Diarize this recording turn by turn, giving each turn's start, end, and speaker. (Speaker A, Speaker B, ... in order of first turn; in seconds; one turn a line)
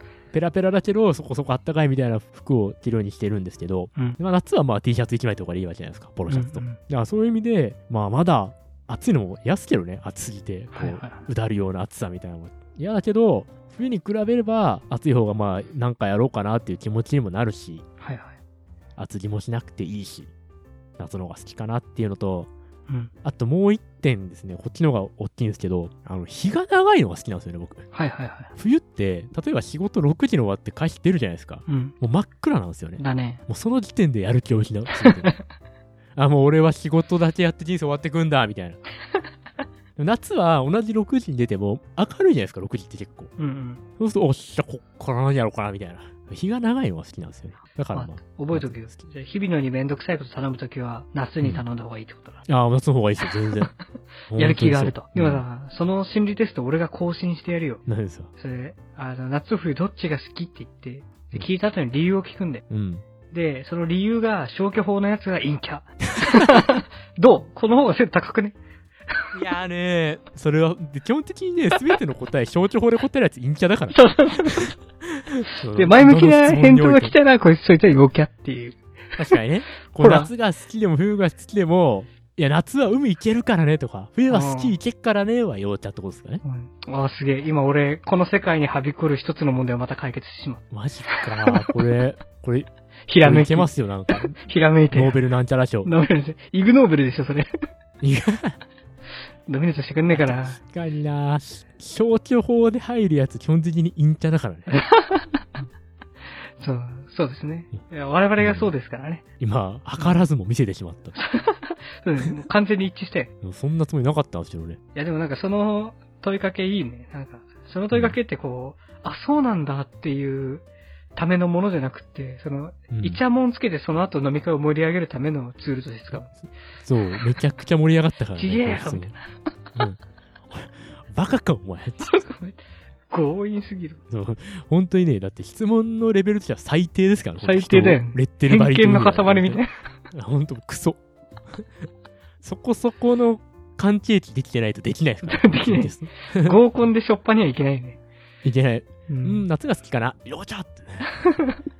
Speaker A: 0.3-17.8
Speaker B: 6.3-6.8
Speaker B: 10.7-11.2
Speaker B: 18.0-18.4
Speaker A: 19.0-20.3
Speaker A: 21.0-22.5
Speaker A: 23.2-27.9
Speaker B: 27.9-28.5
Speaker A: 28.6-35.3
Speaker B: 31.7-31.9
Speaker B: 33.0-33.4
Speaker B: 35.0-35.4
Speaker A: 36.1-38.8
Speaker A: 40.0-43.3
Speaker B: 43.4-43.8
Speaker A: 44.0-49.0
Speaker B: 47.9-52.4
Speaker A: 52.5-53.7
Speaker A: 54.3-55.4
Speaker B: 54.3-57.8
Speaker A: 57.9-58.3
Speaker B: 58.4-62.6
Speaker A: 62.7-63.0
Speaker B: 63.3-68.6
Speaker A: 69.3-74.0
Speaker B: 73.9-74.7
Speaker A: 75.6-77.1
Speaker B: 75.7-78.8
Speaker A: 79.2-86.4
Speaker B: 80.0-80.3
Speaker B: 84.3-84.8
Speaker B: 86.4-90.6
Speaker A: 90.7-92.7
Speaker B: 91.4-91.7
Speaker B: 93.1-95.2
Speaker A: 93.2-94.3
Speaker A: 94.9-95.9
Speaker B: 95.8-97.5
Speaker A: 98.0-98.6
Speaker B: 99.5-100.6
Speaker A: 100.1-104.8
Speaker B: 104.7-105.6
Speaker B: 106.6-109.2
Speaker A: 108.4-108.7
Speaker A: 109.4-111.1
Speaker B: 110.0-110.2
Speaker B: 111.2-113.3
Speaker A: 113.4-114.8
Speaker B: 114.9-120.6
Speaker A: 117.9-118.2
Speaker B: 121.2-126.3
Speaker A: 122.9-123.2
Speaker A: 126.1-129.1
Speaker B: 128.3-129.2
Speaker A: 130.5-132.1
Speaker B: 132.0-132.6
Speaker B: 133.1-134.0
Speaker A: 134.1-139.6
Speaker B: 137.4-139.9
Speaker A: 140.1-141.0
Speaker A: 142.4-146.6
Speaker B: 145.3-148.0
Speaker A: 148.4-151.1
Speaker B: 149.1-149.4